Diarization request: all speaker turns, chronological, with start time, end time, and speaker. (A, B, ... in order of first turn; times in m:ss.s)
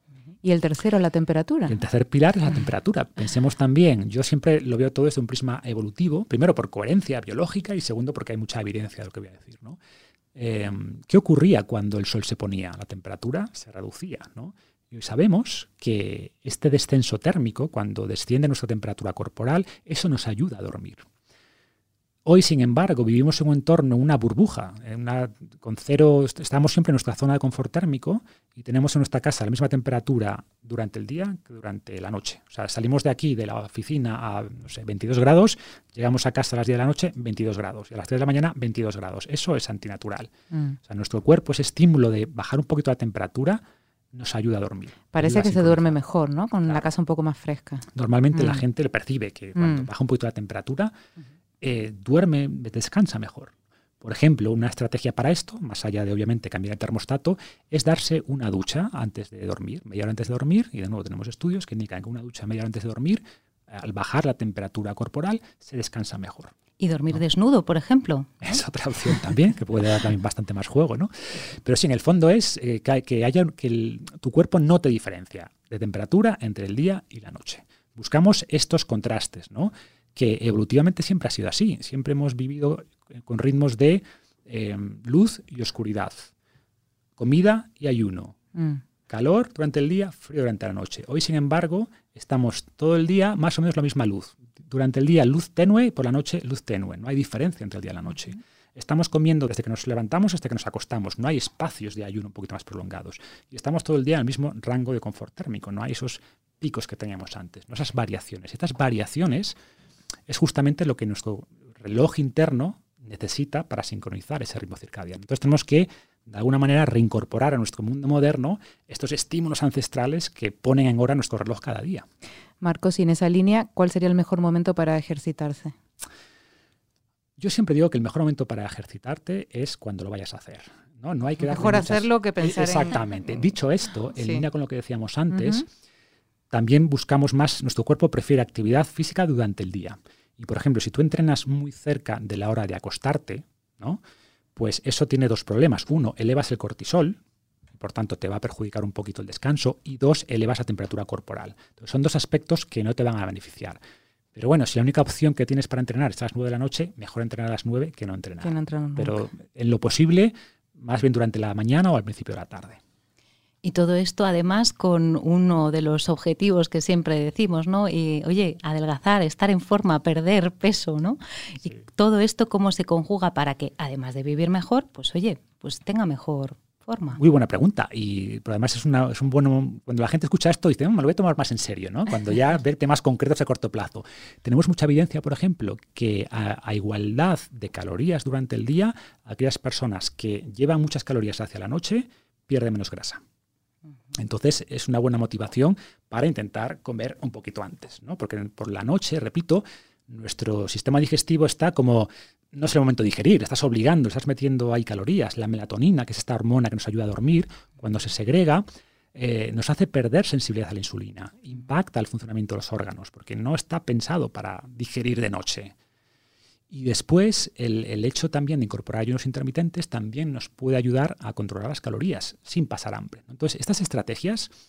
0:00.4-0:01.8 A
0:01.7-0:09.8 B
0:10.3-0:21.0 B
0:22.2-0:40.3 B
0:40.5-0:40.8 A
0:40.8-0:43.6 B
0:44.1-0:46.0 B
0:45.1-0:48.6 A
0:47.9-0:50.9 B
0:49.6-0:49.9 A
0:51.6-1:06.5 B
1:06.8-1:08.4 C
1:08.4-1:26.3 B
1:27.2-1:28.4 B
1:28.6-1:28.8 A
1:29.1-1:49.6 B
1:50.3-2:02.1 B
2:02.6-2:05.7 A
2:07.4-2:15.6 B
2:11.4-2:13.0 A
2:14.2-2:14.4 A
2:15.3-2:15.6 A
2:16.5-2:24.0 B
2:24.6-2:27.2 B
2:27.7-2:33.8 B
2:34.3-2:42.8 B
2:38.4-2:39.2 A
2:43.6-2:57.2 C
2:57.2-3:13.2 B
3:14.1-3:35.7 B
3:36.7-3:44.5 B